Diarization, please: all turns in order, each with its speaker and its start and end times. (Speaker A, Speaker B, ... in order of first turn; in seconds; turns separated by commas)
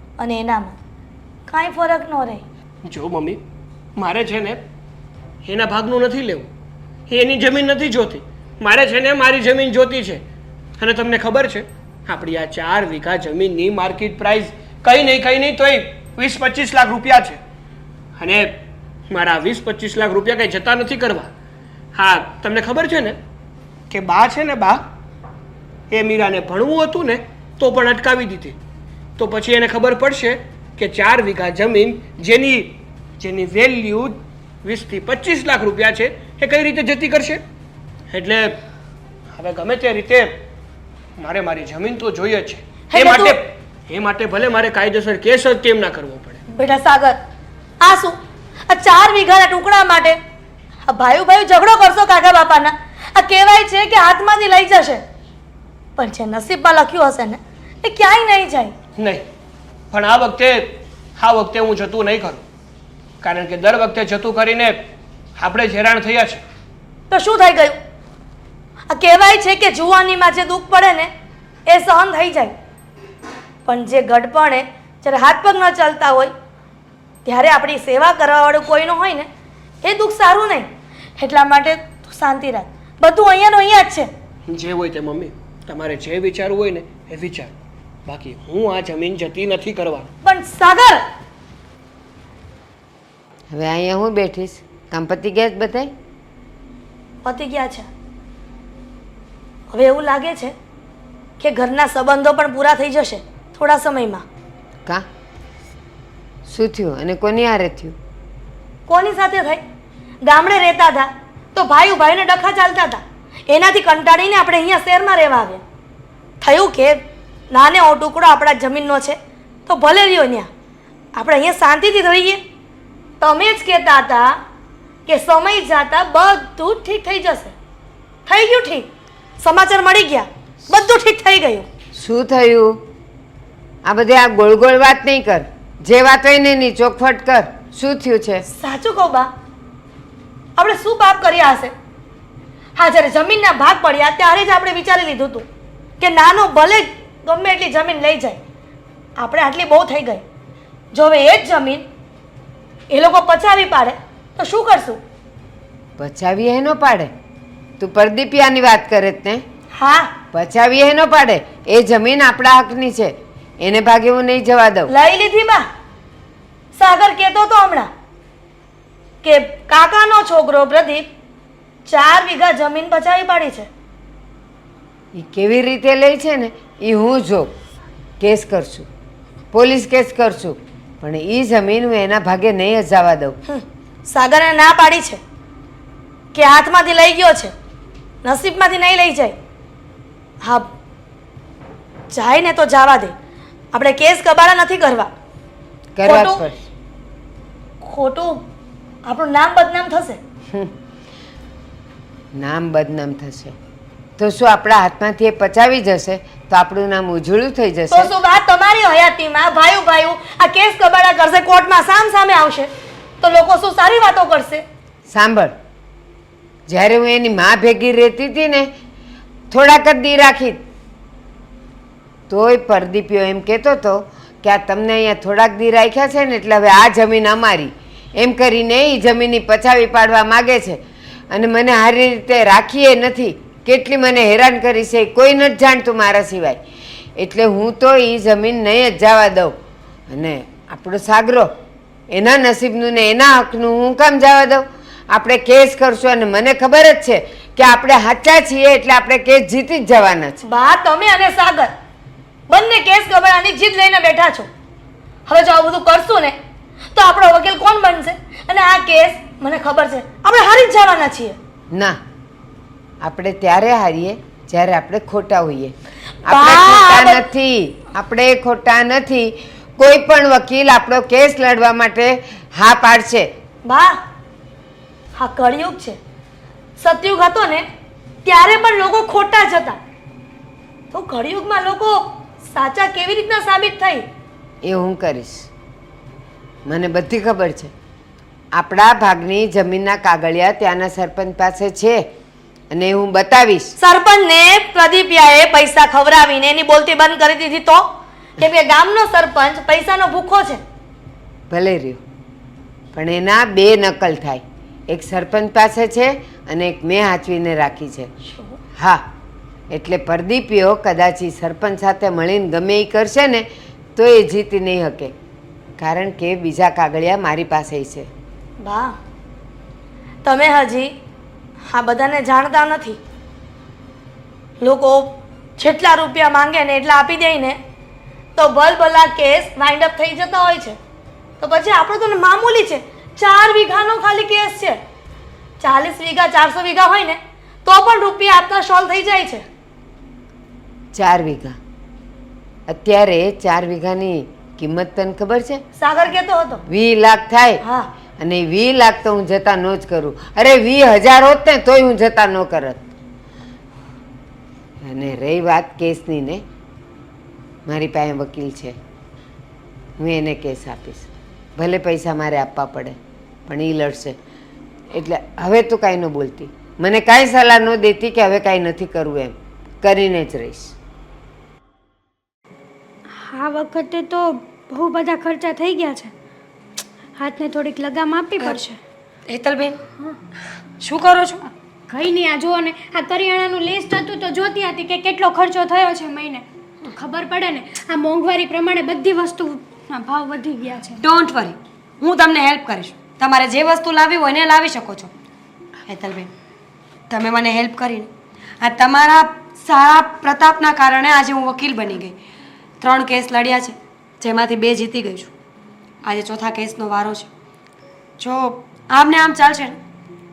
Speaker A: 0.2-0.8, Speaker A: 1.5-2.4, Speaker B: 2.9-3.4, Speaker B: 4.0-4.6, Speaker B: 5.4-6.5, Speaker B: 7.1-10.2, Speaker B: 10.8-17.4, Speaker B: 18.2-18.5, Speaker B: 19.1-21.3, Speaker B: 21.9-23.2, Speaker B: 23.9-24.8, Speaker B: 25.9-28.6, Speaker B: 29.2-37.4, Speaker B: 38.1-38.6, Speaker B: 39.4-40.3, Speaker B: 41.2-46.4, Speaker A: 42.9-43.4, Speaker A: 46.5-47.2, Speaker A: 47.8-48.2, Speaker A: 48.7-50.2, Speaker A: 50.9-55.0, Speaker A: 56.0-58.7, Speaker B: 59.0-59.2, Speaker B: 59.9-62.4, Speaker B: 63.2-64.8, Speaker B: 65.4-66.4, Speaker A: 67.1-67.8, Speaker A: 68.9-71.1, Speaker A: 71.7-72.5, Speaker A: 73.7-76.3, Speaker A: 77.2-79.3, Speaker A: 79.8-80.7, Speaker A: 81.2-84.1, Speaker B: 84.5-87.5, Speaker B: 88.1-90.1, Speaker A: 90.2-91.0, Speaker C: 93.5-95.9, Speaker A: 97.2-97.9, Speaker A: 99.7-100.5, Speaker A: 101.4-104.2, Speaker C: 106.5-108.0, Speaker A: 108.9-109.6, Speaker A: 110.2-115.6, Speaker A: 116.4-117.0, Speaker A: 117.5-120.5, Speaker A: 121.2-122.4, Speaker A: 123.2-124.3, Speaker A: 125.1-127.5, Speaker A: 128.3-128.9, Speaker A: 129.4-131.7, Speaker C: 131.9-132.8, Speaker C: 133.8-138.4, Speaker A: 138.5-139.3, Speaker A: 140.6-141.7, Speaker A: 142.8-145.4, Speaker A: 146.0-148.4, Speaker A: 149.2-150.2, Speaker A: 150.9-151.8, Speaker A: 152.9-155.0, Speaker C: 156.0-157.1, Speaker C: 157.8-159.4, Speaker A: 159.8-160.1, Speaker C: 160.3-164.9, Speaker A: 164.9-165.7, Speaker A: 166.8-167.9, Speaker A: 169.2-171.1, Speaker A: 171.9-173.7, Speaker C: 175.2-177.5, Speaker C: 178.2-178.9, Speaker C: 179.5-183.4, Speaker A: 183.5-185.2, Speaker A: 186.3-187.5, Speaker A: 188.2-189.4, Speaker A: 190.4-190.7, Speaker A: 192.1-193.1, Speaker A: 193.7-195.1, Speaker C: 196.0-196.6, Speaker A: 196.1-196.4, Speaker A: 197.8-198.4, Speaker A: 199.1-200.2, Speaker C: 202.3-203.6, Speaker C: 204.2-208.1, Speaker A: 207.9-212.7, Speaker A: 213.2-214.6, Speaker C: 215.1-215.5, Speaker C: 216.7-218.7, Speaker C: 219.5-220.6, Speaker C: 222.3-230.8, Speaker C: 231.3-236.6, Speaker C: 237.2-239.5, Speaker C: 240.1-241.5, Speaker C: 242.1-250.4, Speaker A: 250.5-251.7, Speaker A: 252.5-254.5, Speaker A: 255.3-256.4, Speaker A: 256.9-261.4, Speaker C: 261.7-262.0, Speaker C: 263.0-265.7, Speaker C: 266.3-273.3, Speaker A: 266.3-267.2, Speaker A: 273.6-274.0, Speaker A: 275.2-276.0, Speaker A: 276.8-277.6, Speaker A: 278.2-279.8, Speaker A: 280.9-284.0, Speaker C: 284.6-285.5, Speaker C: 286.7-287.7, Speaker C: 288.5-292.1, Speaker C: 292.7-293.7, Speaker A: 293.8-297.9, Speaker A: 298.4-300.6, Speaker C: 301.5-302.0, Speaker C: 302.9-308.1, Speaker A: 308.2-308.6, Speaker C: 309.7-313.4, Speaker C: 314.0-315.1, Speaker C: 315.8-318.1, Speaker A: 318.6-318.9, Speaker A: 320.2-320.9, Speaker A: 321.7-323.0, Speaker A: 324.6-327.6, Speaker A: 328.4-330.8, Speaker A: 331.4-334.8, Speaker A: 335.6-339.4, Speaker C: 340.9-341.6, Speaker C: 342.7-345.6, Speaker A: 345.8-346.6, Speaker C: 346.7-347.6, Speaker C: 348.2-352.8, Speaker C: 354.9-356.4, Speaker C: 357.7-358.8, Speaker C: 360.0-363.0, Speaker C: 363.5-364.1, Speaker C: 364.9-370.7, Speaker D: 373.2-376.1, Speaker D: 377.2-378.8, Speaker E: 379.3-379.8, Speaker E: 380.8-381.5, Speaker D: 381.9-391.1, Speaker E: 391.0-395.1, Speaker E: 395.9-396.3, Speaker E: 397.1-402.2, Speaker E: 402.8-405.3, Speaker E: 406.0-407.3, Speaker E: 408.2-409.8